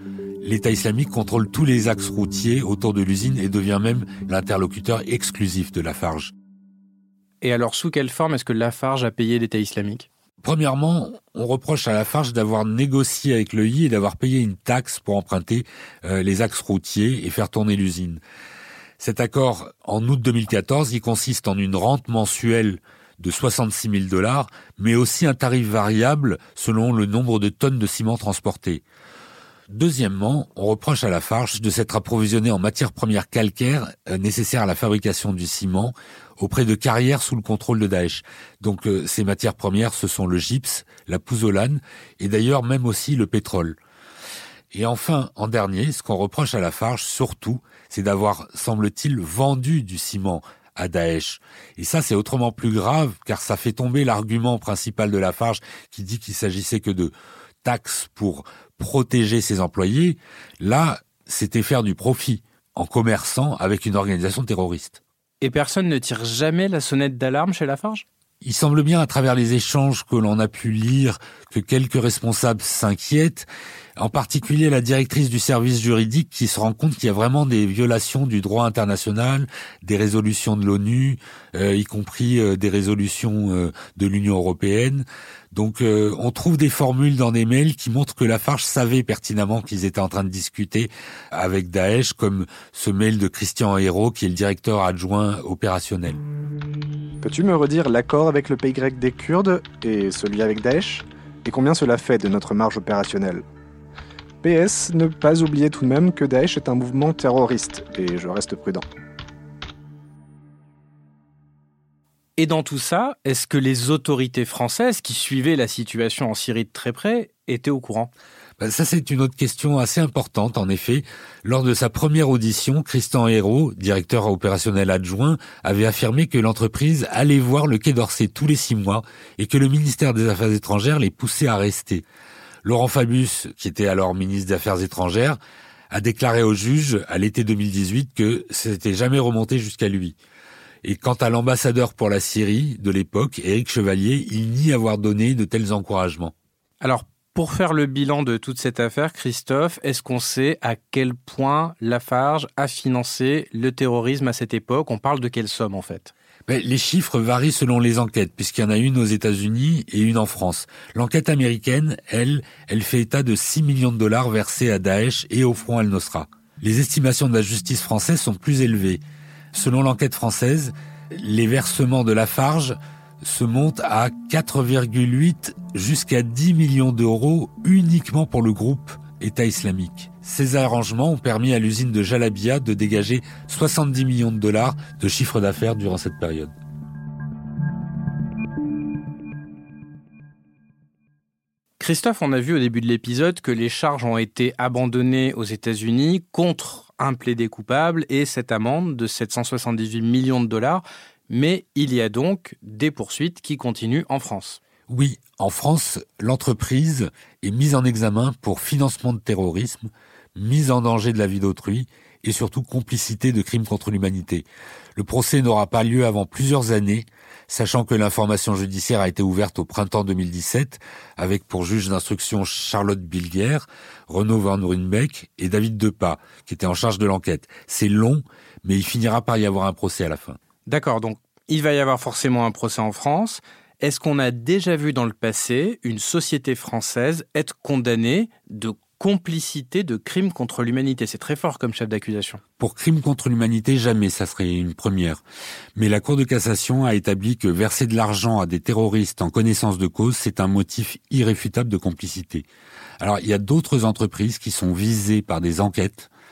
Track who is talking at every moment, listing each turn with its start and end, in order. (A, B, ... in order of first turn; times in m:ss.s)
0:00.4-0:06.3 A
0:07.4-0:10.1 B
0:10.4-0:18.2 A
0:19.0-0:28.8 A
0:29.7-0:43.8 A
0:44.7-1:05.0 A
1:05.4-1:08.0 B
1:08.4-1:36.2 A
1:37.2-1:43.4 C
1:44.4-1:48.8 C
1:52.4-1:58.1 B
1:58.6-2:12.0 A
2:12.6-2:15.4 A
2:15.9-2:20.2 A
2:20.8-2:26.3 A
2:26.8-2:36.1 B
2:36.5-2:49.0 A
2:49.5-3:06.5 A
3:11.8-3:24.6 B
3:24.9-3:50.4 A
3:50.7-4:02.4 B
4:02.6-4:05.2 A
4:05.8-4:12.5 A
4:13.0-4:16.1 A